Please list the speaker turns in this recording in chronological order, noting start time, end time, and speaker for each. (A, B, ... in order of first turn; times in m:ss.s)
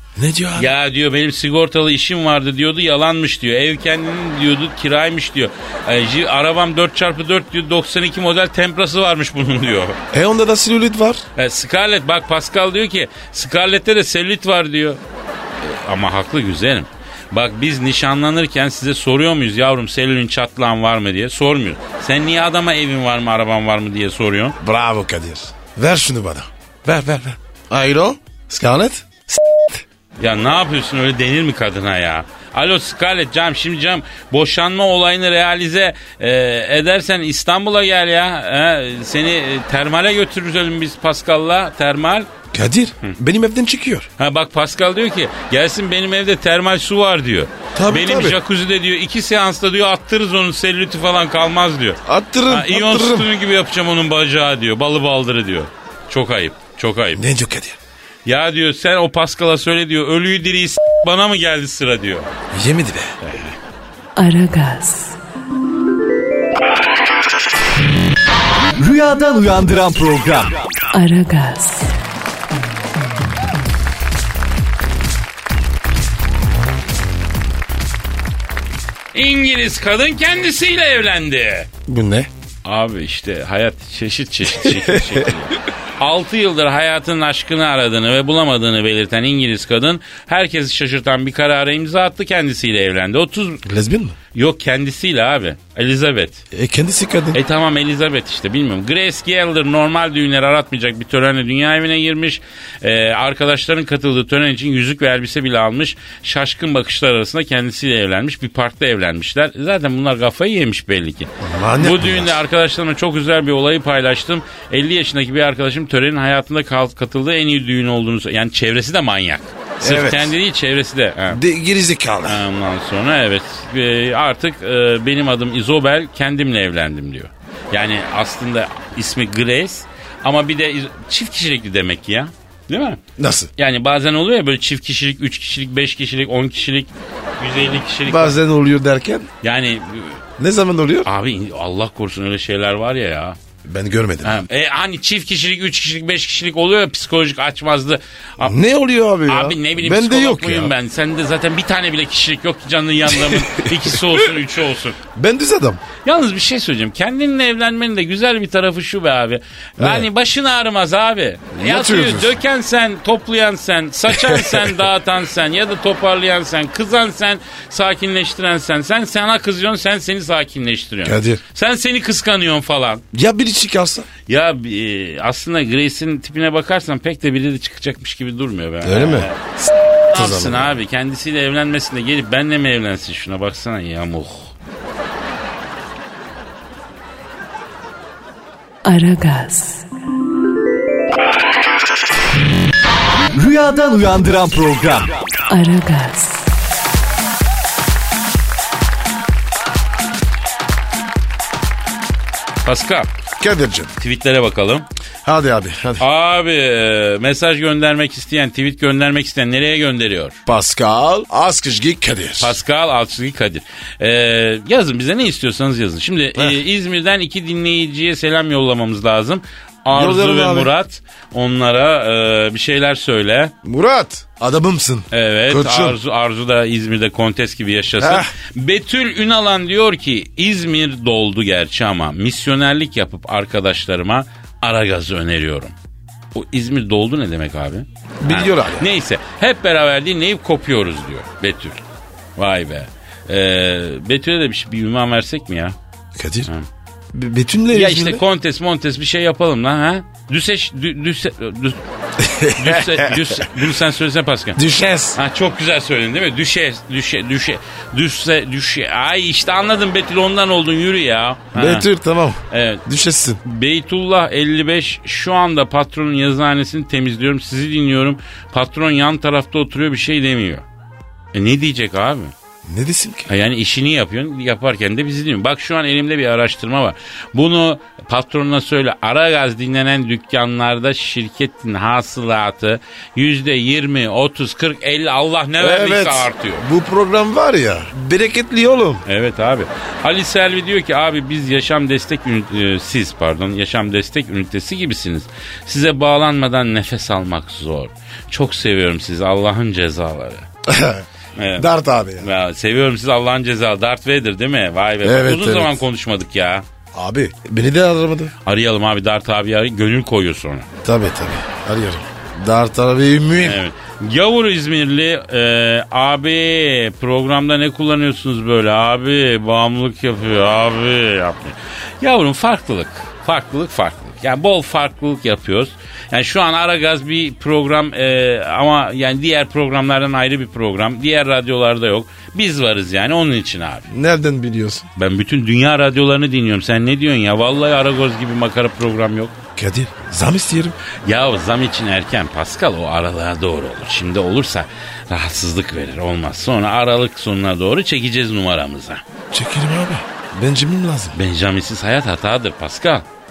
0:00.2-0:00.7 A
0:00.5-0:10.0 B
0:10.1-0:11.2 A
0:11.4-0:15.0 B
0:15.6-0:24.6 B
0:24.6-0:29.8 A
0:30.2-0:42.3 B
0:42.5-0:44.1 A
0:44.2-0:57.2 B
0:47.7-0:48.4 A
0:52.0-0:53.3 A
0:57.1-0:57.8 A
0:58.2-1:02.3 B
1:02.5-1:03.2 A
1:03.2-1:03.6 B
1:04.2-1:05.2 C
1:08.8-1:10.6 D
1:10.9-1:11.9 C
1:19.1-1:21.7 B
1:21.8-1:22.3 A
1:22.6-1:33.6 B
1:24.6-1:25.3 A
1:33.6-1:34.2 A
1:34.3-1:36.4 B
1:36.5-1:37.4 A
1:37.3-2:01.4 B
1:51.4-1:52.4 A
1:59.8-2:00.3 A
2:01.3-2:02.4 A
2:02.2-2:13.0 B
2:13.2-2:13.5 A
2:13.6-2:18.4 B
2:18.0-2:19.3 A
2:19.4-2:20.2 B
2:20.4-2:21.1 A
2:21.0-2:23.4 B
2:23.6-2:24.4 A
2:24.2-2:28.6 B
2:28.4-2:30.7 A
2:29.2-2:35.0 B
2:33.1-2:34.2 A
2:35.1-2:35.8 A
2:36.0-2:53.0 B
2:39.8-2:40.1 A
2:41.5-2:42.4 A
2:44.1-2:44.8 A
2:51.0-2:51.4 A
2:53.1-2:54.1 A
2:54.3-2:59.4 B
2:58.8-3:00.8 A
3:00.1-3:04.5 B
3:08.8-3:09.8 C
3:13.3-3:15.2 D
3:15.5-3:16.5 C
3:22.6-3:23.1 B
3:23.4-3:23.9 A
3:24.0-3:24.9 B
3:25.2-3:26.0 A
3:26.0-3:30.4 B
3:30.5-3:32.6 A
3:32.4-3:43.5 B
3:39.9-3:40.7 A
3:43.6-3:46.0 A
3:45.1-3:55.7 B
3:48.0-3:48.3 A
3:56.3-4:01.8 B
3:58.2-3:58.9 A
4:02.4-4:05.8 B
4:06.2-4:06.5 A
4:07.1-4:08.2 A
4:07.7-4:11.8 B
4:12.2-4:13.6 A
4:12.5-4:14.6 B
4:14.6-4:15.2 A
4:15.1-4:21.9 B
4:21.5-4:23.4 A
4:22.5-4:22.8 B
4:23.4-4:30.6 B
4:31.3-4:32.3 B
4:32.6-4:33.3 A
4:33.3-4:46.6 B
4:45.6-4:49.0 A
4:49.0-5:00.5 B
5:00.6-5:01.0 A
5:01.4-5:01.7 B
5:01.6-5:02.3 A
5:02.2-5:06.6 B
5:05.0-5:05.8 A
5:06.9-5:08.3 A
5:08.4-5:10.7 B
5:10.8-5:13.6 A
5:13.4-5:33.9 B
5:33.9-5:34.9 A
5:35.0-5:39.3 B
5:39.6-5:40.8 A
5:41.0-5:49.0 B
5:49.3-5:51.2 A
5:51.1-5:53.0 B